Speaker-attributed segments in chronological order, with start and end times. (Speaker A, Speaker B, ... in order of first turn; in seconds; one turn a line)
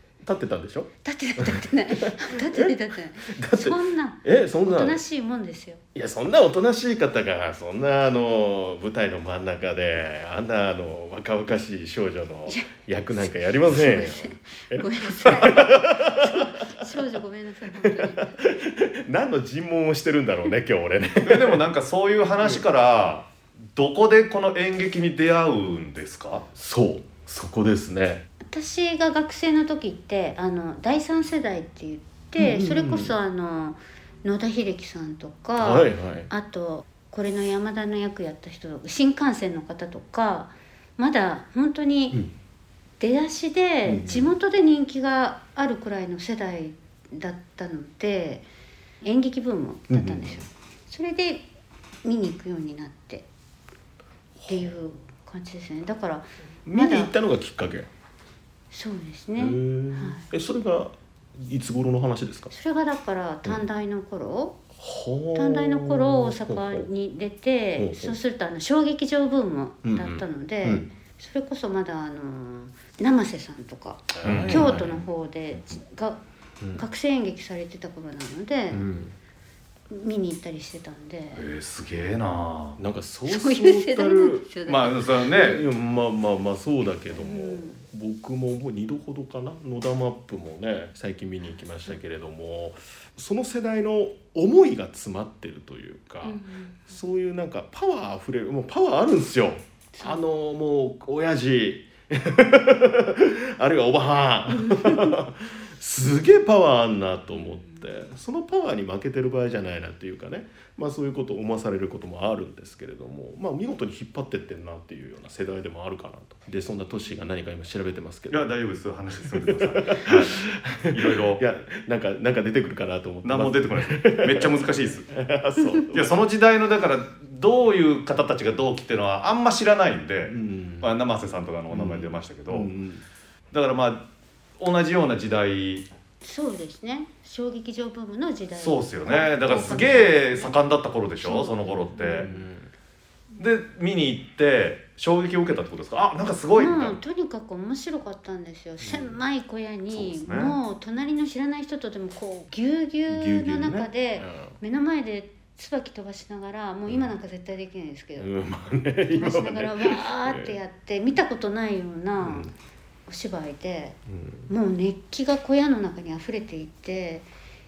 Speaker A: 0.2-5.0
Speaker B: 1.0-5.8
Speaker A: 6.0-16.9
Speaker B: 13.6-18.4
Speaker A: 17.8-21.6
Speaker C: 21.2-26.5
Speaker A: 26.6-28.2
Speaker B: 28.4-42.2
Speaker A: 32.4-33.2
Speaker A: 35.6-36.3
Speaker B: 43.0-48.5
Speaker A: 43.9-44.3
Speaker B: 49.0-51.5
Speaker A: 49.9-50.5
Speaker B: 52.0-53.3
Speaker A: 54.4-54.7
Speaker B: 54.5-57.1
Speaker A: 56.7-57.9
Speaker B: 58.7-60.3
Speaker A: 59.4-62.5
Speaker B: 62.5-64.6
Speaker A: 64.8-66.9
Speaker B: 65.3-76.2
Speaker A: 67.8-68.2
Speaker A: 69.8-70.9
Speaker A: 74.2-75.0
Speaker C: 74.2-74.8
Speaker B: 76.7-78.8
Speaker A: 78.7-79.1
Speaker B: 79.9-81.4
Speaker C: 81.3-82.8
Speaker A: 82.8-84.5
Speaker B: 83.3-85.2
Speaker C: 84.7-85.6
Speaker A: 85.2-118.5
Speaker B: 87.2-87.8
Speaker B: 96.2-96.8
Speaker B: 100.0-100.2
Speaker B: 104.5-105.2
Speaker B: 107.3-107.8
Speaker C: 118.3-121.4
Speaker A: 119.3-126.2
Speaker C: 123.2-125.1
Speaker C: 125.9-132.7
Speaker A: 130.3-130.9
Speaker A: 131.7-133.1
Speaker C: 133.5-134.1
Speaker C: 134.6-135.9
Speaker B: 136.2-140.5
Speaker C: 138.6-142.3
Speaker A: 139.4-140.1
Speaker B: 141.2-142.4
Speaker A: 142.1-142.7
Speaker C: 143.4-147.0
Speaker B: 146.6-158.3
Speaker A: 148.8-149.2
Speaker C: 149.9-150.6
Speaker A: 153.1-154.5
Speaker A: 158.2-160.6
Speaker B: 159.1-162.5
Speaker A: 162.2-162.5
Speaker B: 163.1-167.3
Speaker A: 164.1-164.5